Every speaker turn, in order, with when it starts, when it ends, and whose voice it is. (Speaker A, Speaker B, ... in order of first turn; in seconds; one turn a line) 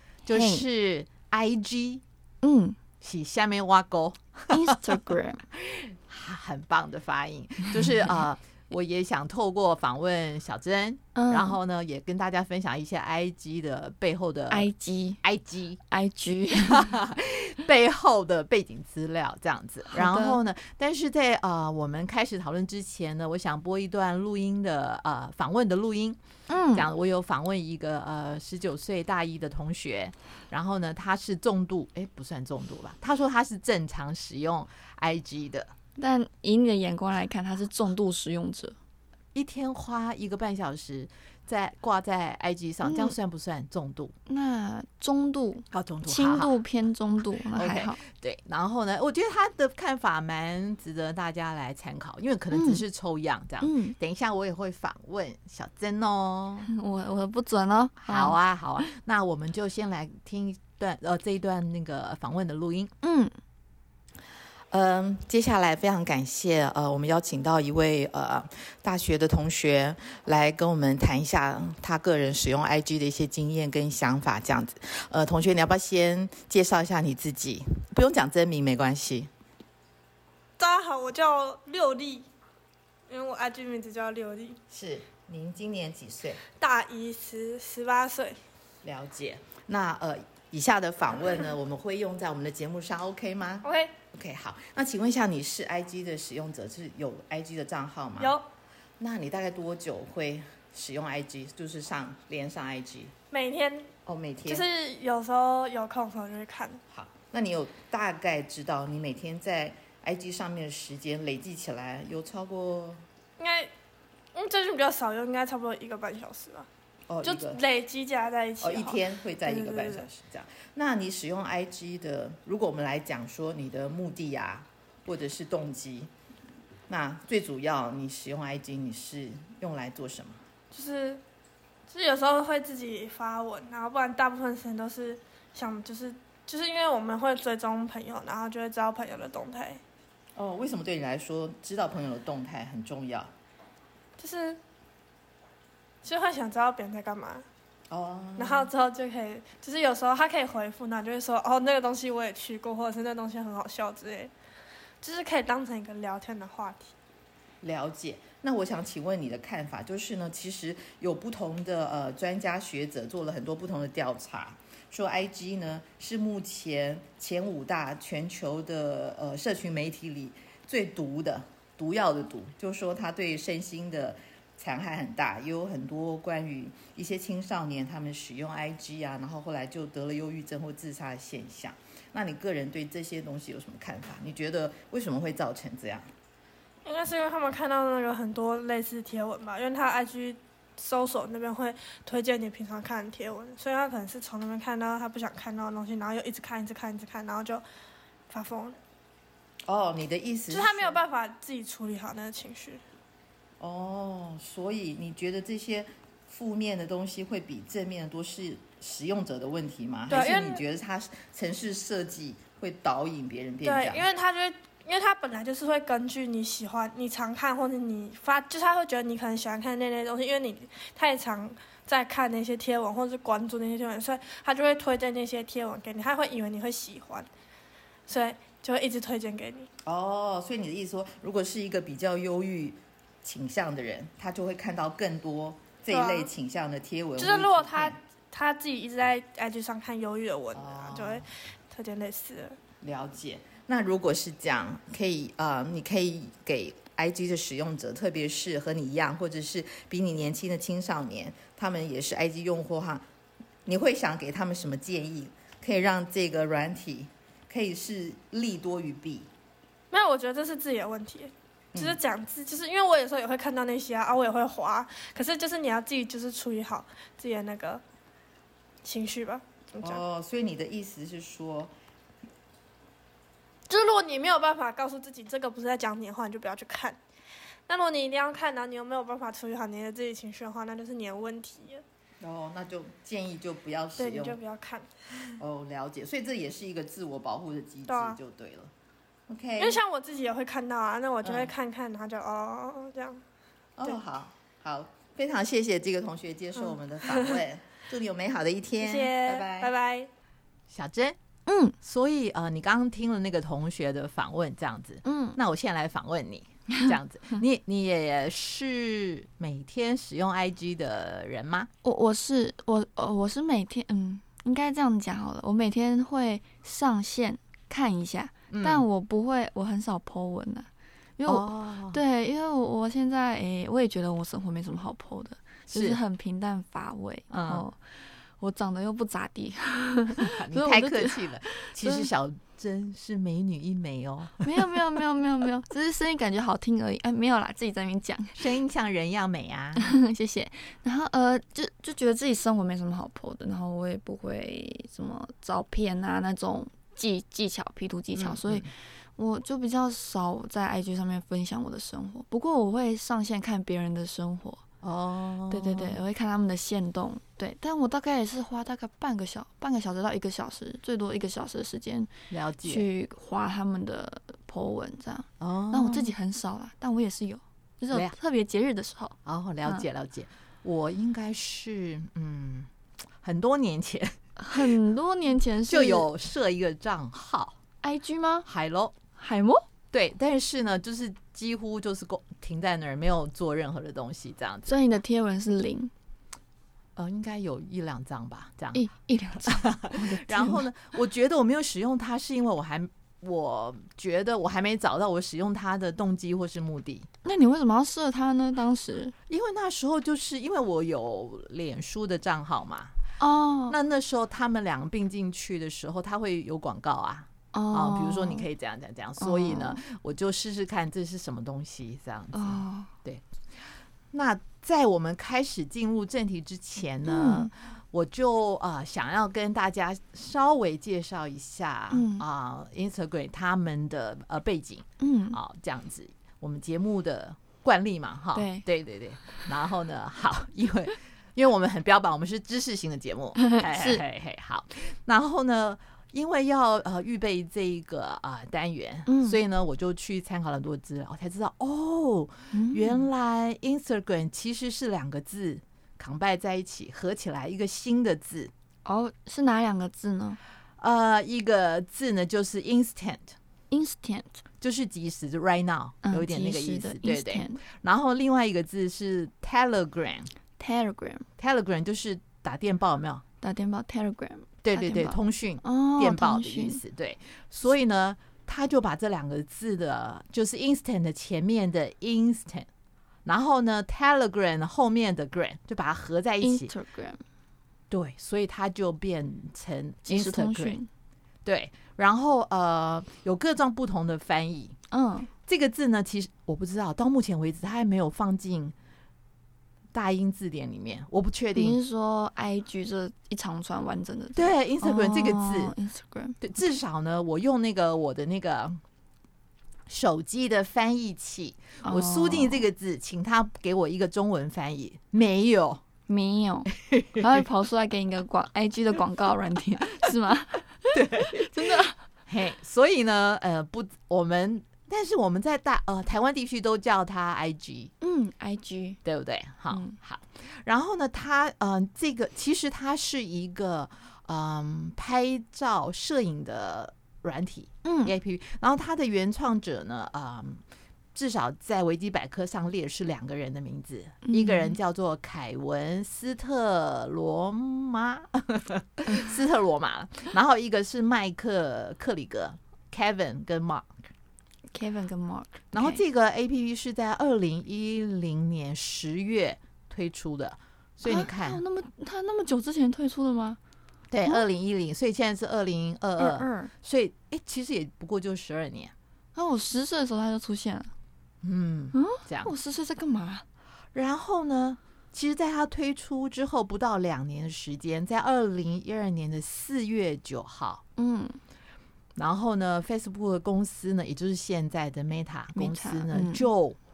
Speaker A: 0.2-0.6
Speaker B: 0.3-2.0
Speaker A: 2.4-2.8
Speaker B: 3.0-14.7
Speaker A: 4.5-5.4
Speaker A: 11.1-11.6
Speaker A: 14.5-15.2
Speaker B: 15.2-15.8
Speaker A: 15.9-16.9
Speaker B: 16.6-26.2
Speaker A: 19.9-20.4
Speaker A: 26.5-26.9
Speaker B: 26.7-35.7
Speaker A: 36.0-38.8
Speaker B: 39.3-44.1
Speaker A: 42.8-43.2
Speaker A: 44.3-48.0
Speaker B: 45.7-46.5
Speaker B: 47.5-56.7
Speaker A: 52.5-52.8
Speaker A: 53.6-54.0
Speaker A: 56.6-58.4
Speaker B: 58.0-62.9
Speaker A: 63.0-63.3
Speaker C: 64.7-79.3
Speaker D: 80.6-82.2
Speaker D: 83.1-84.6
Speaker B: 84.8-85.3
Speaker C: 85.1-86.3
Speaker D: 86.5-88.4
Speaker C: 88.8-93.6
Speaker B: 89.2-89.7
Speaker D: 93.6-94.0
Speaker B: 94.2-94.5
Speaker C: 94.3-98.2
Speaker D: 98.2-98.4
Speaker C: 99.0-103.1
Speaker D: 103.3-103.9
Speaker C: 104.1-104.6
Speaker D: 104.5-106.8
Speaker C: 107.1-113.0
Speaker D: 113.4-113.7
Speaker D: 114.3-116.7
Speaker D: 117.2-120.1
Speaker C: 118.6-126.1
Speaker C: 126.9-130.4
Speaker D: 130.7-131.2
Speaker D: 131.9-139.8
Speaker C: 140.4-143.2
Speaker D: 144.2-144.6
Speaker D: 146.0-147.4
Speaker B: 148.1-148.6
Speaker D: 148.4-154.3
Speaker D: 155.0-156.9
Speaker C: 157.6-186.0
Speaker D: 186.8-197.6
Speaker D: 198.3-198.8
Speaker C: 199.7-200.6
Speaker D: 200.5-202.8
Speaker B: 200.6-200.9
Speaker C: 203.6-214.0
Speaker B: 210.1-210.3
Speaker D: 210.1-210.6
Speaker D: 213.6-227.3
Speaker D: 228.1-229.7
Speaker C: 229.9-237.9
Speaker D: 235.9-236.3
Speaker D: 237.2-242.6
Speaker C: 242.8-253.0
Speaker C: 253.7-259.2
Speaker D: 259.9-267.8
Speaker D: 268.8-270.0
Speaker C: 269.9-271.7
Speaker D: 273.7-277.0
Speaker D: 277.7-281.8
Speaker C: 282.2-284.3
Speaker D: 284.0-285.4
Speaker C: 285.4-288.7
Speaker D: 287.9-288.2
Speaker C: 289.3-289.8
Speaker D: 289.6-293.2
Speaker C: 293.8-299.7
Speaker B: 296.6-297.2
Speaker D: 297.1-297.4
Speaker D: 298.8-300.1
Speaker B: 300.7-301.2
Speaker A: 301.5-301.8
Speaker B: 301.8-311.7
Speaker A: 305.1-305.4
Speaker A: 311.8-327.8
Speaker B: 318.5-318.8
Speaker B: 321.3-322.0
Speaker B: 325.7-326.0
Speaker B: 327.3-327.6
Speaker A: 328.4-332.1
Speaker B: 330.2-334.5
Speaker A: 334.4-338.4
Speaker B: 338.4-339.9
Speaker A: 339.8-354.6
Speaker B: 348.1-348.7
Speaker B: 354.8-356.0
Speaker A: 355.5-362.1
Speaker B: 362.3-362.9
Speaker A: 362.6-369.9
Speaker B: 365.4-366.1
Speaker B: 369.2-372.7
Speaker B: 373.2-374.7
Speaker A: 374.4-376.1
Speaker B: 375.7-377.6
Speaker A: 377.8-378.5
Speaker B: 378.5-379.0
Speaker A: 379.2-379.7
Speaker B: 379.9-384.7
Speaker A: 384.7-385.9
Speaker B: 387.0-388.8
Speaker A: 388.8-390.6
Speaker B: 389.5-397.1
Speaker A: 397.2-399.1
Speaker B: 399.3-402.9
Speaker A: 403.2-403.8
Speaker B: 403.7-413.2
Speaker A: 407.5-408.5
Speaker A: 409.2-409.8
Speaker A: 412.3-412.9
Speaker B: 414.1-448.5
Speaker A: 417.1-417.5
Speaker A: 421.9-422.2
Speaker A: 425.0-425.4
Speaker A: 428.4-428.7
Speaker A: 433.4-434.0
Speaker A: 439.1-439.4
Speaker A: 442.5-443.1
Speaker A: 448.9-450.4
Speaker B: 450.8-453.4
Speaker A: 453.7-454.4
Speaker B: 454.6-460.3
Speaker A: 456.0-457.6
Speaker A: 460.6-461.3
Speaker B: 461.4-463.2
Speaker A: 463.4-466.8
Speaker B: 464.6-472.7
Speaker B: 473.2-476.7
Speaker A: 476.4-477.2
Speaker B: 477.9-480.8
Speaker A: 480.1-480.9
Speaker B: 481.4-484.8
Speaker A: 484.9-485.3
Speaker B: 485.5-488.7
Speaker B: 489.9-491.8
Speaker A: 491.6-496.4
Speaker B: 494.4-495.7
Speaker B: 496.4-498.8
Speaker B: 499.9-505.8
Speaker A: 501.8-502.7
Speaker A: 506.1-512.0
Speaker B: 506.8-507.2
Speaker B: 510.9-517.9
Speaker A: 518.0-519.0
Speaker B: 519.0-530.6
Speaker A: 519.7-520.0
Speaker A: 527.8-528.1
Speaker B: 531.1-543.9
Speaker A: 534.2-534.8
Speaker A: 544.7-546.0
Speaker B: 545.7-551.6
Speaker A: 551.0-553.6
Speaker B: 554.1-558.9
Speaker A: 556.2-556.7
Speaker A: 559.4-560.9
Speaker B: 561.4-562.5
Speaker A: 561.9-563.5
Speaker B: 563.9-570.8
Speaker A: 571.0-571.4
Speaker B: 572.1-576.8
Speaker A: 575.5-576.5